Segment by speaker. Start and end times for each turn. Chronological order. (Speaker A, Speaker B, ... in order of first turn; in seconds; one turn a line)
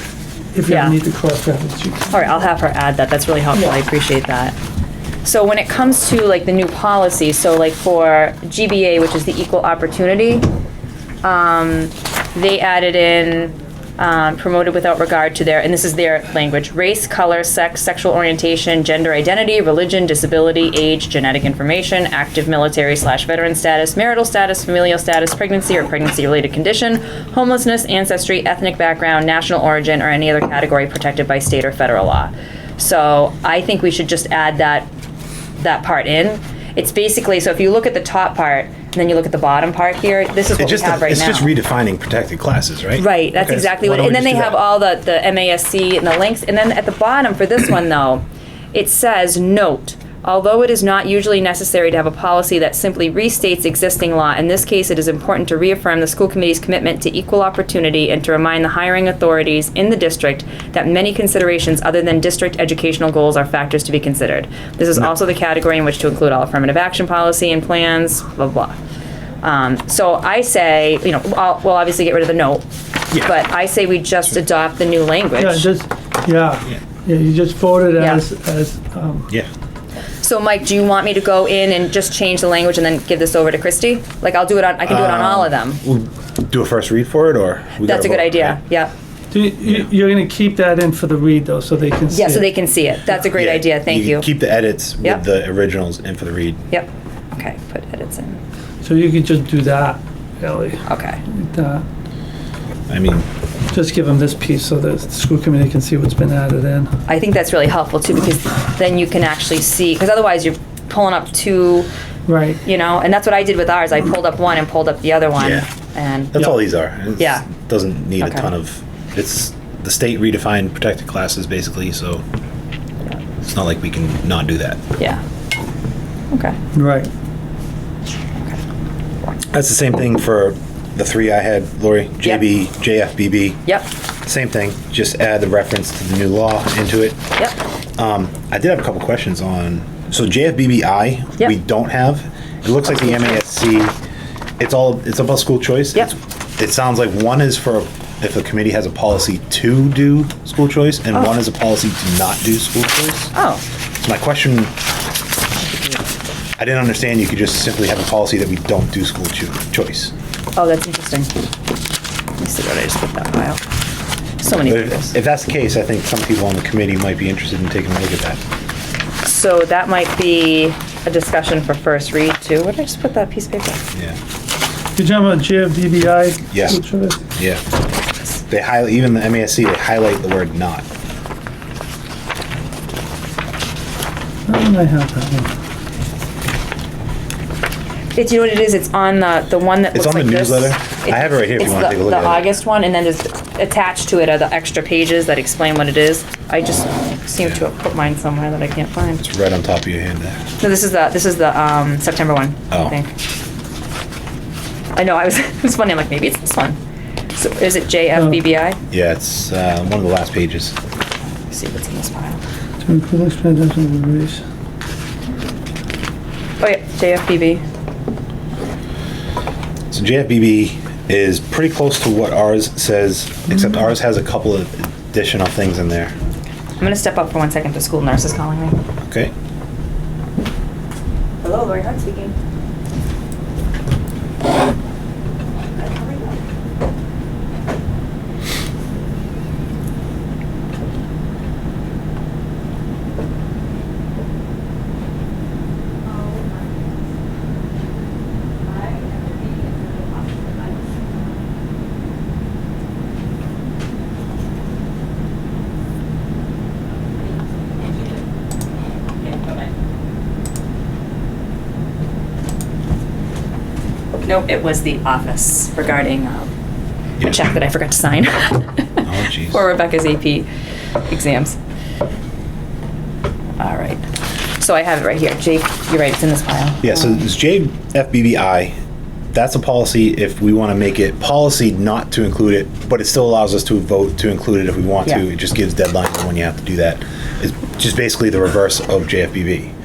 Speaker A: 0.5-2.4
Speaker B: 0.7-1.0
Speaker B: 2.1-4.6
Speaker B: 5.2-10.5
Speaker B: 11.2-34.9
Speaker B: 35.6-41.5
Speaker C: 40.6-44.6
Speaker B: 43.0-68.8
Speaker B: 69.4-75.7
Speaker A: 75.4-79.3
Speaker B: 80.2-85.8
Speaker C: 84.9-88.6
Speaker B: 87.8-88.9
Speaker A: 89.3-92.5
Speaker B: 92.1-94.3
Speaker C: 93.3-96.6
Speaker B: 96.7-98.4
Speaker A: 98.8-101.8
Speaker B: 100.9-101.2
Speaker C: 102.9-103.3
Speaker A: 103.7-106.9
Speaker B: 107.1-111.9
Speaker A: 112.3-112.6
Speaker B: 112.6-116.6
Speaker C: 115.4-115.7
Speaker C: 116.3-122.2
Speaker B: 117.2-117.5
Speaker B: 118.2-118.5
Speaker C: 123.4-124.8
Speaker B: 126.3-126.6
Speaker A: 126.7-127.1
Speaker C: 129.5-133.6
Speaker C: 134.3-137.2
Speaker C: 138.0-144.0
Speaker B: 142.9-143.4
Speaker C: 144.6-153.3
Speaker B: 153.3-153.6
Speaker C: 154.0-154.7
Speaker B: 155.6-156.1
Speaker C: 156.6-160.1
Speaker B: 160.6-161.3
Speaker B: 162.4-163.6
Speaker B: 164.4-165.1
Speaker C: 164.7-168.4
Speaker B: 169.2-173.8
Speaker A: 175.0-177.2
Speaker C: 176.5-176.8
Speaker C: 177.4-177.6
Speaker C: 178.5-180.8
Speaker A: 184.5-185.5
Speaker B: 188.2-199.2
Speaker C: 189.9-192.4
Speaker C: 199.2-200.4
Speaker B: 200.6-203.1
Speaker C: 202.7-203.0
Speaker B: 205.0-206.8
Speaker B: 207.3-208.8
Speaker C: 208.9-210.8
Speaker B: 211.5-212.4
Speaker A: 212.8-214.4
Speaker B: 216.6-217.7
Speaker C: 219.9-226.1
Speaker B: 226.8-228.8
Speaker C: 229.0-229.3
Speaker B: 231.4-232.3
Speaker B: 235.8-236.4
Speaker B: 246.1-247.1
Speaker B: 248.6-251.5
Speaker B: 257.2-258.2
Speaker B: 259.2-259.7
Speaker B: 264.2-266.5
Speaker B: 267.2-270.5
Speaker C: 269.1-269.6
Speaker B: 271.1-271.6
Speaker B: 273.6-274.1
Speaker B: 274.6-277.1
Speaker C: 276.8-278.8
Speaker C: 279.3-289.7